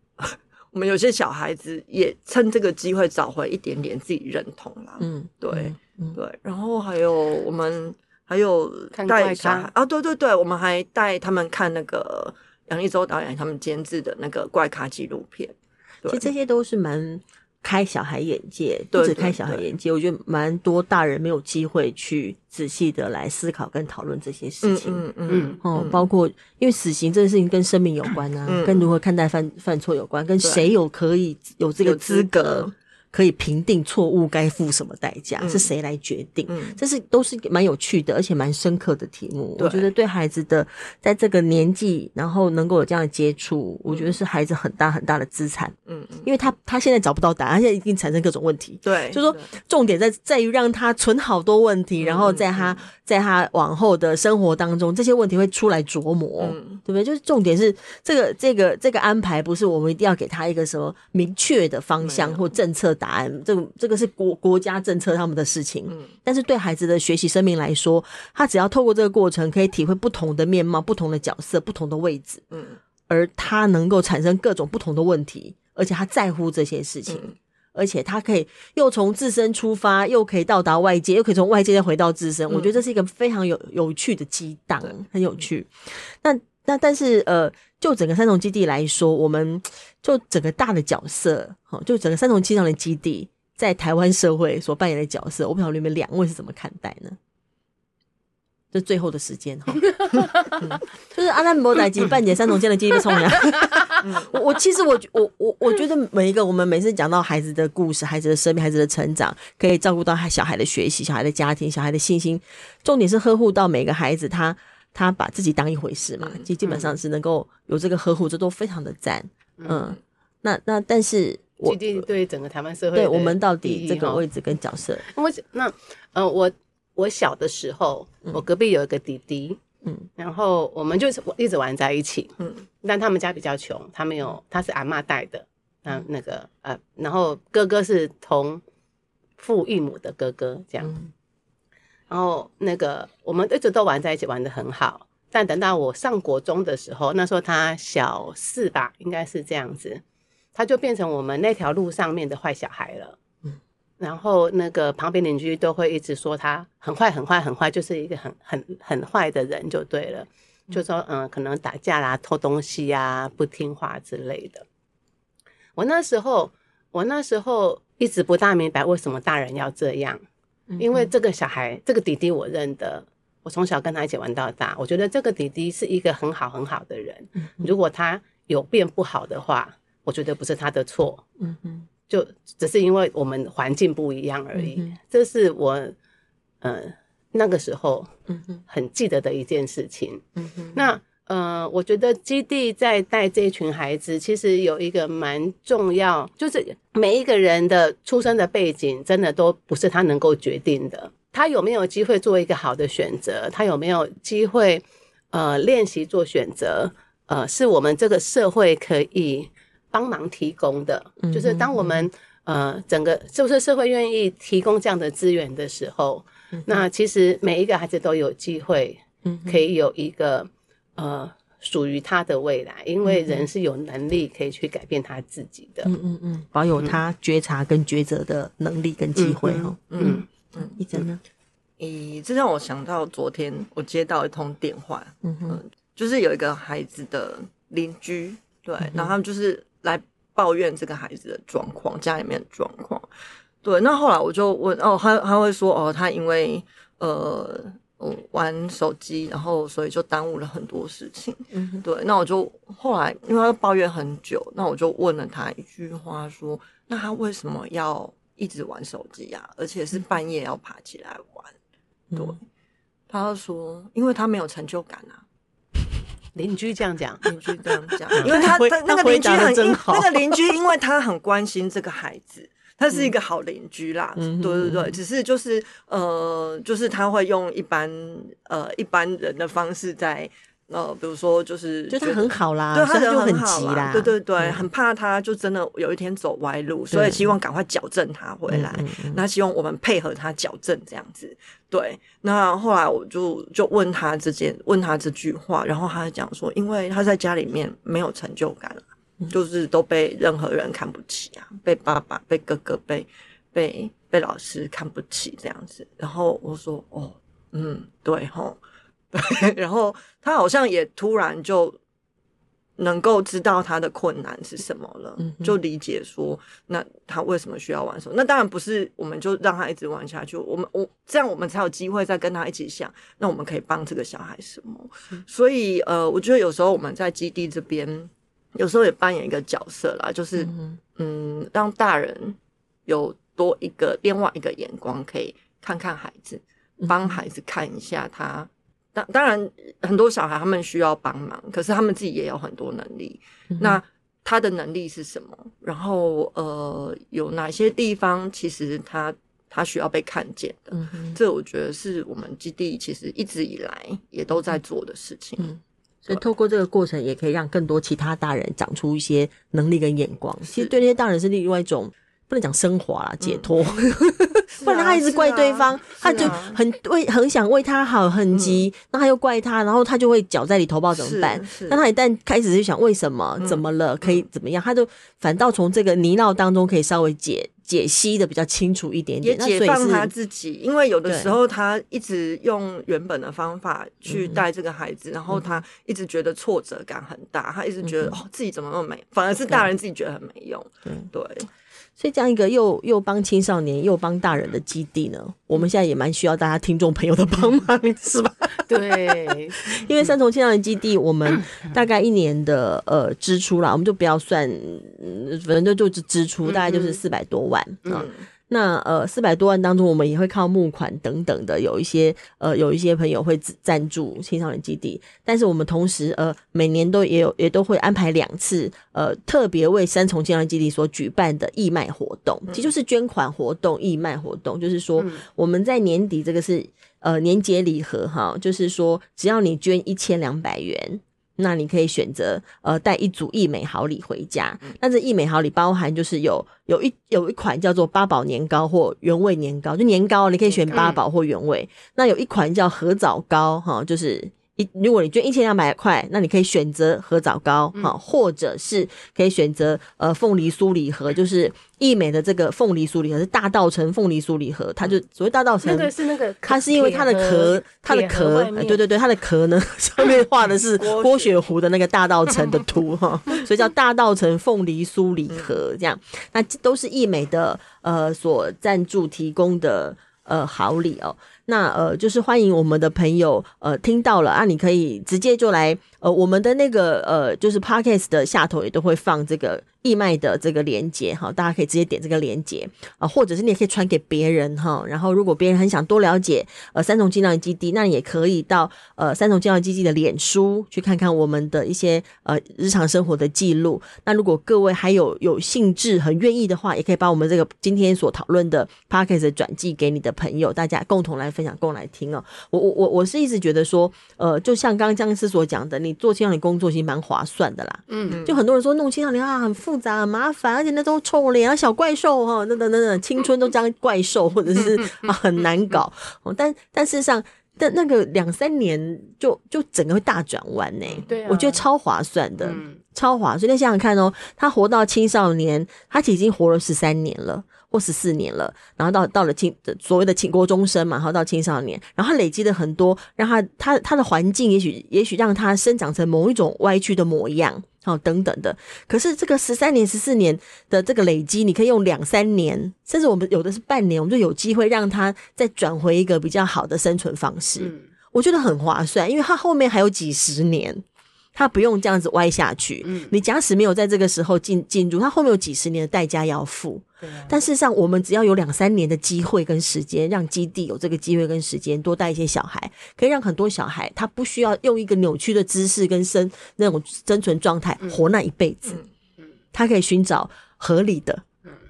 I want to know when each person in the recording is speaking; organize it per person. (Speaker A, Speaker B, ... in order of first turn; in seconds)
Speaker A: 0.2-16.3, 18.9-19.7, 24.6-26.0, 28.5-28.9, 30.4-30.7, 31.8-32.7, 35.4-35.7, 36.5-36.8, 39.6-39.9, 45.9-46.3, 48.9-49.5, 52.0-52.9, 56.4-56.8, 62.0-62.5, 65.9-66.2, 72.5-72.8, 77.1-77.4, 82.5-82.8, 104.0-104.3, 116.2-116.9, 229.9-231.1, 231.8-243.1, 243.6-261.5, 262.1-262.4, 263.1-265.2, 267.3-308.6, 309.1-311.8, 312.8-332.4, 332.9-355.5, 363.2-363.5, 364.6-366.6, 368.3-368.7, 370.9-371.8, 373.4-374.2, 379.2-391.5, 407.9-408.2, 460.8-461.4, 465.3-465.6, 508.1-508.4
Speaker B: 5.0-6.2, 16.1-25.1, 25.6-72.5, 73.1-97.2, 98.7-122.1, 122.9-125.0, 170.7-171.1, 177.4-177.7, 181.4-181.9, 184.6-184.9, 188.3-188.6, 190.4-190.9, 211.2-212.1, 216.5-216.8, 219.2-219.6, 223.0-223.5, 225.8-231.2, 235.2-235.6, 238.8-239.1, 251.5-251.8, 262.1-262.4, 268.3-270.4, 274.2-275.0, 281.9-284.7, 286.9-287.3, 288.5-289.2, 315.3-315.5, 330.5-330.8, 336.8-337.2, 343.5-343.8, 350.8-351.2, 355.4-380.1, 381.1-381.3, 384.1-384.4, 385.3-385.6, 387.8-388.2, 392.0-455.9, 456.5-550.8, 551.4-568.8, 569.5-571.2
Speaker C: 8.9-9.7, 25.3-25.6, 100.2-100.5, 119.6-120.0, 121.7-124.2, 125.0-129.6, 130.2-138.6, 139.4-141.0, 142.1-150.0, 150.6-153.2, 154.0-164.7, 165.8-170.2, 170.8-181.2, 182.1-185.9, 186.6-188.1, 188.7-190.2, 190.7-225.9, 229.2-230.3, 266.4-267.3, 268.2-268.5, 398.6-399.6, 406.5-407.0, 425.0-425.2, 440.7-441.0, 455.6-458.8, 507.9-508.2, 521.1-521.6, 522.4-522.8, 547.6-547.9, 552.9-553.1, 557.0-557.4